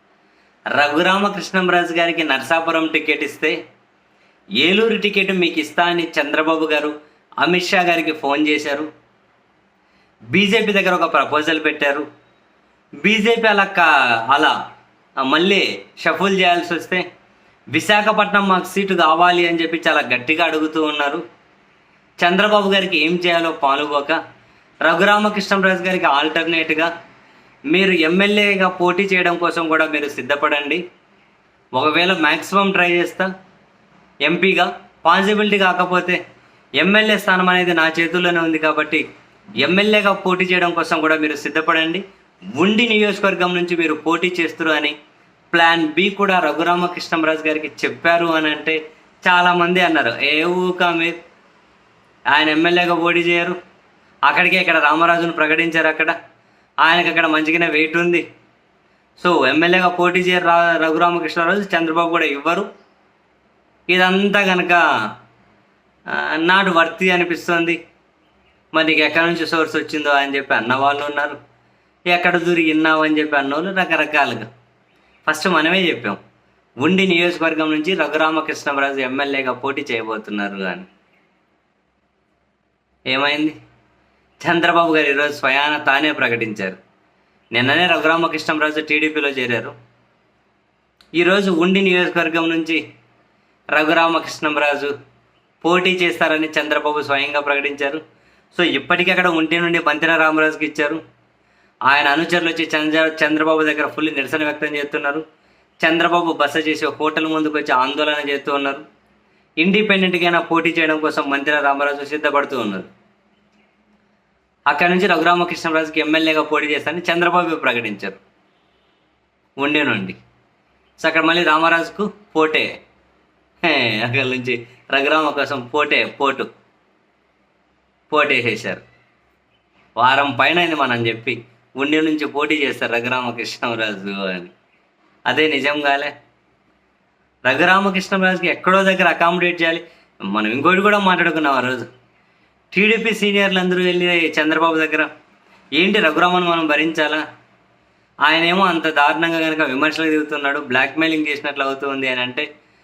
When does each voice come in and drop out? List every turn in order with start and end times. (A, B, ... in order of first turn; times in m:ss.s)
0:00.7-0:03.6 A
0:04.6-0:08.9 A
0:10.3-0:12.1 A
0:13.0-0:14.5 A
0:15.2-0:17.0 A
0:17.7-0:21.2 A
0:22.2-0:24.2 A
0:24.8-0:26.9 A
0:27.7-0:30.8 A
0:31.8-0:33.3 A
0:34.2-0:36.2 A
0:36.8-0:39.0 A
0:39.6-0:42.0 A
0:42.5-0:44.9 A
0:45.5-0:51.2 A
0:52.3-0:53.6 A
0:54.3-0:56.2 A
0:56.8-0:58.2 A
0:59.2-1:02.7 A
1:03.9-1:04.8 A
1:06.1-1:07.8 A
1:08.7-1:11.4 A
1:12.1-1:14.5 A
1:15.3-1:16.2 A
1:16.8-1:20.9 A
1:23.1-1:23.6 A
1:24.4-1:26.8 A
1:27.5-1:29.7 A
1:31.2-1:32.8 A
1:33.7-1:34.9 A
1:35.6-1:38.0 A
1:38.5-1:41.0 A
1:41.9-1:45.2 A
1:45.8-1:48.8 A
1:49.6-1:52.9 A
1:54.7-1:58.2 A
1:59.6-2:00.2 A
2:01.0-2:02.7 A
2:03.6-2:06.5 A
2:08.1-2:08.8 A
2:10.0-2:14.5 A
2:15.3-2:16.1 A
2:17.4-2:21.9 A
2:22.7-2:25.1 A
2:25.8-2:27.2 A
2:28.2-2:32.5 A